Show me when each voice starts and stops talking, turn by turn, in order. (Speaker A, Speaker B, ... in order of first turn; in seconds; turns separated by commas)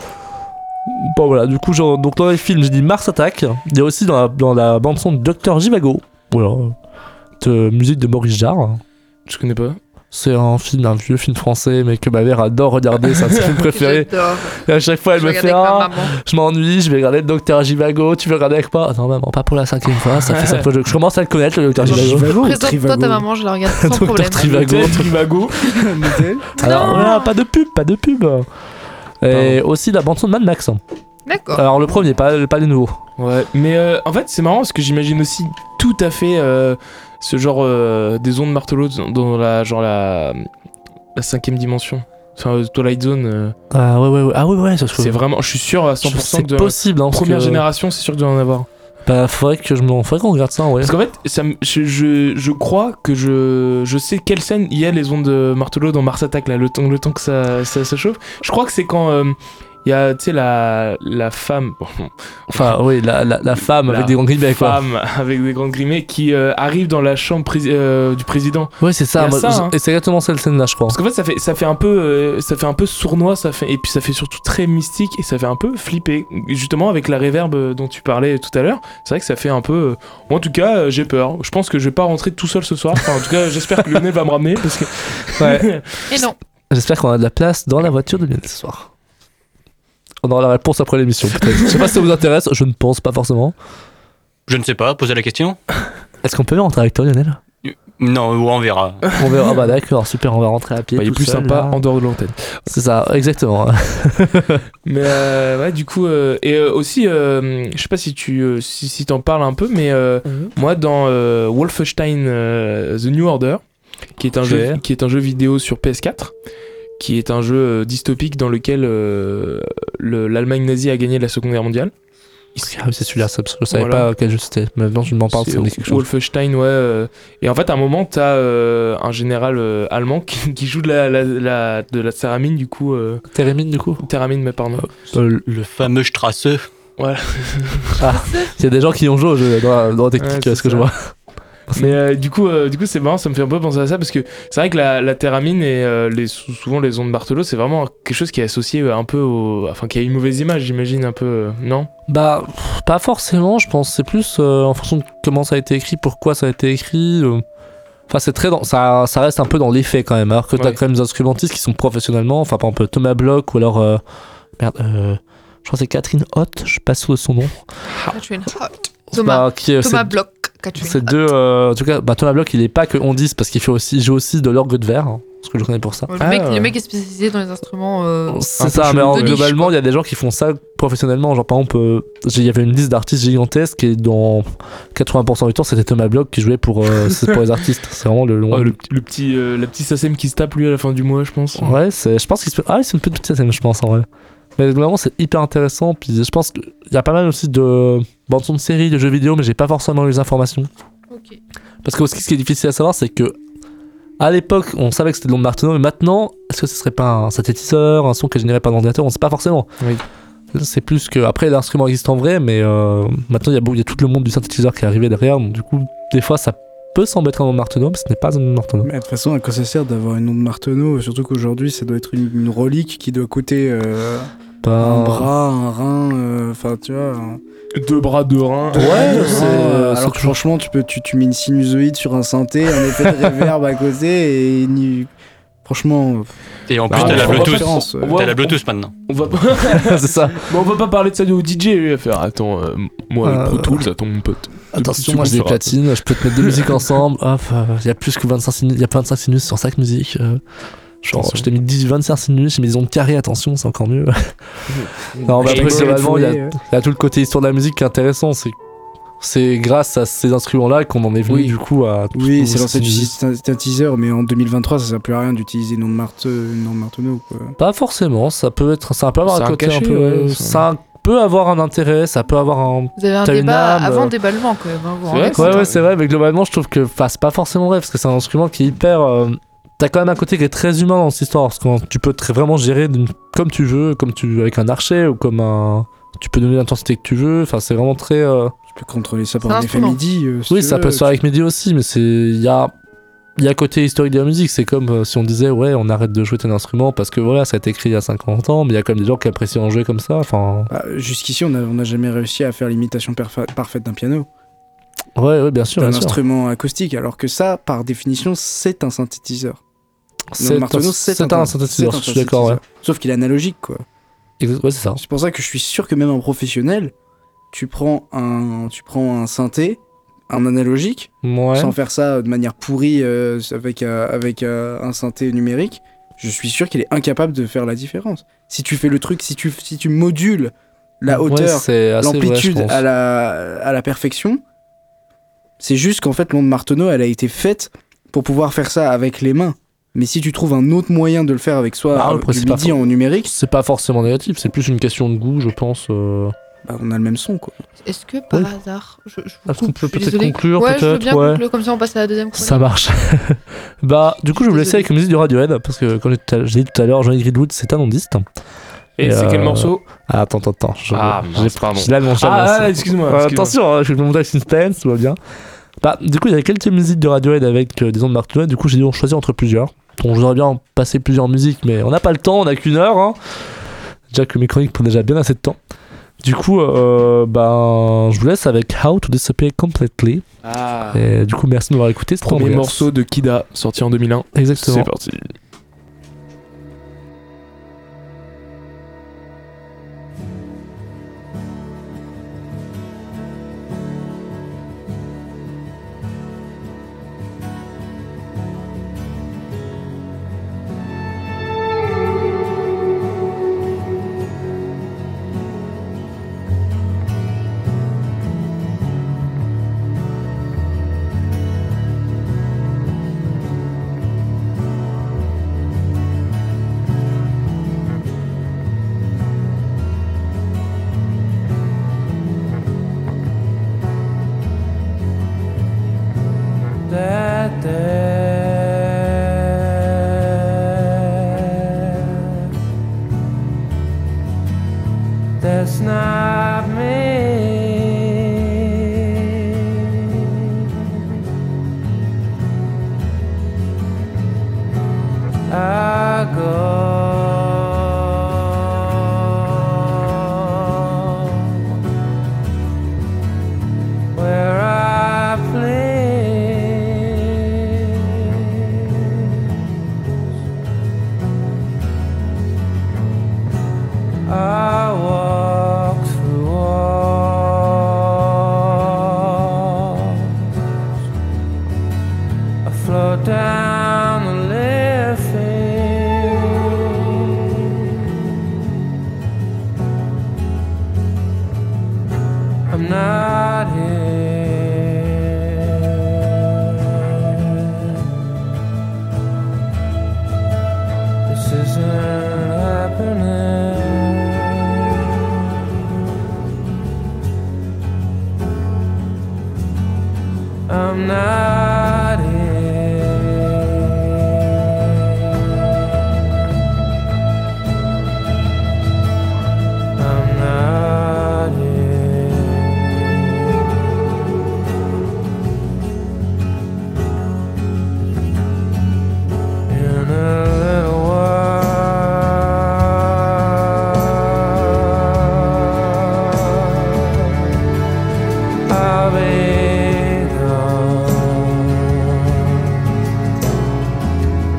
Speaker A: 0.9-6.8, Speaker A: 7.4-8.8, Speaker B: 9.3-9.8, Speaker A: 10.1-22.6, Speaker B: 13.2-13.5, Speaker C: 13.7-14.6, Speaker C: 15.1-16.2, Speaker B: 20.0-20.7, Speaker D: 21.8-23.2, Speaker C: 21.9-24.5, Speaker A: 23.7-25.2, Speaker B: 24.4-25.7, Speaker D: 25.7-26.6, Speaker C: 26.6-27.3, Speaker A: 26.6-28.5, Speaker A: 29.2-30.8, Speaker B: 29.3-29.6, Speaker C: 31.3-31.6, Speaker A: 31.5-33.0, Speaker B: 33.2-40.5, Speaker B: 41.1-43.6, Speaker A: 43.7-45.2, Speaker B: 44.9-48.7, Speaker A: 46.0-47.6, Speaker A: 49.1-51.0, Speaker B: 50.8-62.8, Speaker A: 62.5-64.8, Speaker B: 63.7-69.8, Speaker A: 68.8-71.0, Speaker B: 70.9-86.0, Speaker A: 85.4-85.7, Speaker C: 86.1-86.4, Speaker A: 86.7-88.9, Speaker A: 90.2-93.5, Speaker E: 94.5-95.6, Speaker A: 96.2-97.4, Speaker E: 97.6-99.0, Speaker A: 99.2-101.8, Speaker B: 101.0-102.4, Speaker A: 102.7-104.6, Speaker B: 104.8-113.6, Speaker B: 114.2-116.3, Speaker A: 114.4-114.8, Speaker B: 117.0-121.9, Speaker A: 122.6-126.0, Speaker B: 123.7-124.1, Speaker B: 125.2-133.2, Speaker A: 133.3-134.0, Speaker B: 134.0-135.1, Speaker A: 135.1-135.4, Speaker E: 135.4-136.7, Speaker B: 137.0-138.1, Speaker A: 138.0-141.1, Speaker C: 138.1-138.5, Speaker B: 140.2-140.9, Speaker A: 141.7-142.0, Speaker B: 141.7-151.9, Speaker A: 152.1-157.4, Speaker A: 158.1-164.0, Speaker A: 164.6-167.6, Speaker C: 168.1-171.2, Speaker A: 169.1-170.1, Speaker A: 170.8-176.1, Speaker C: 176.1-178.4, Speaker B: 176.2-176.7, Speaker A: 178.3-188.8, Speaker B: 178.6-179.7, Speaker C: 179.1-179.7, Speaker B: 187.0-187.3, Speaker B: 188.5-191.8, Speaker A: 191.6-200.7, Speaker C: 201.1-201.4, Speaker A: 201.8-203.4, Speaker A: 204.2-209.7, Speaker A: 210.5-218.9, Speaker D: 218.8-224.3, Speaker A: 224.6-225.3, Speaker D: 224.8-227.4, Speaker B: 227.8-229.6, Speaker A: 228.8-230.3, Speaker D: 228.8-235.1, Speaker D: 235.7-236.3, Speaker E: 236.7-238.9, Speaker D: 236.9-238.2, Speaker B: 236.9-246.9, Speaker A: 237.0-237.3, Speaker A: 239.7-240.5, Speaker A: 243.2-243.9, Speaker A: 244.7-250.4, Speaker A: 251.0-254.4, Speaker B: 251.1-251.5, Speaker B: 254.7-256.2, Speaker A: 255.2-258.6, Speaker D: 255.4-256.6, Speaker A: 259.2-263.1, Speaker D: 262.1-267.6, Speaker A: 267.6-274.1, Speaker B: 269.3-270.7, Speaker C: 273.0-275.7, Speaker B: 275.1-275.9, Speaker A: 275.3-288.5, Speaker D: 288.7-291.1, Speaker C: 289.5-290.0, Speaker A: 290.5-292.7, Speaker A: 293.4-300.7, Speaker D: 300.7-304.3, Speaker A: 305.2-306.2, Speaker D: 305.8-309.6, Speaker A: 310.3-312.6, Speaker D: 310.4-313.9, Speaker A: 314.4-315.0, Speaker D: 315.0-316.9, Speaker D: 317.5-334.4, Speaker A: 321.2-321.8, Speaker A: 331.1-332.8, Speaker D: 335.6-343.3, Speaker A: 341.9-346.4, Speaker D: 346.6-347.6, Speaker C: 347.9-352.6, Speaker A: 349.5-351.4, Speaker A: 352.3-358.2, Speaker C: 354.3-354.9, Speaker B: 359.0-359.8, Speaker A: 359.0-365.2, Speaker B: 360.9-363.6, Speaker A: 365.8-373.2, Speaker A: 374.1-375.6, Speaker A: 376.2-380.3, Speaker B: 380.4-381.1, Speaker A: 380.9-382.9, Speaker B: 382.2-385.3, Speaker A: 384.3-384.9, Speaker F: 426.9-429.7, Speaker F: 430.8-432.3, Speaker F: 435.4-439.6, Speaker F: 440.1-440.9, Speaker F: 445.5-451.7, Speaker F: 454.1-459.4, Speaker F: 464.2-470.5, Speaker F: 472.6-477.4, Speaker F: 482.7-485.9, Speaker F: 491.3-495.0, Speaker F: 500.7-504.0, Speaker F: 510.0-513.3, Speaker F: 519.7-523.1, Speaker F: 528.7-532.5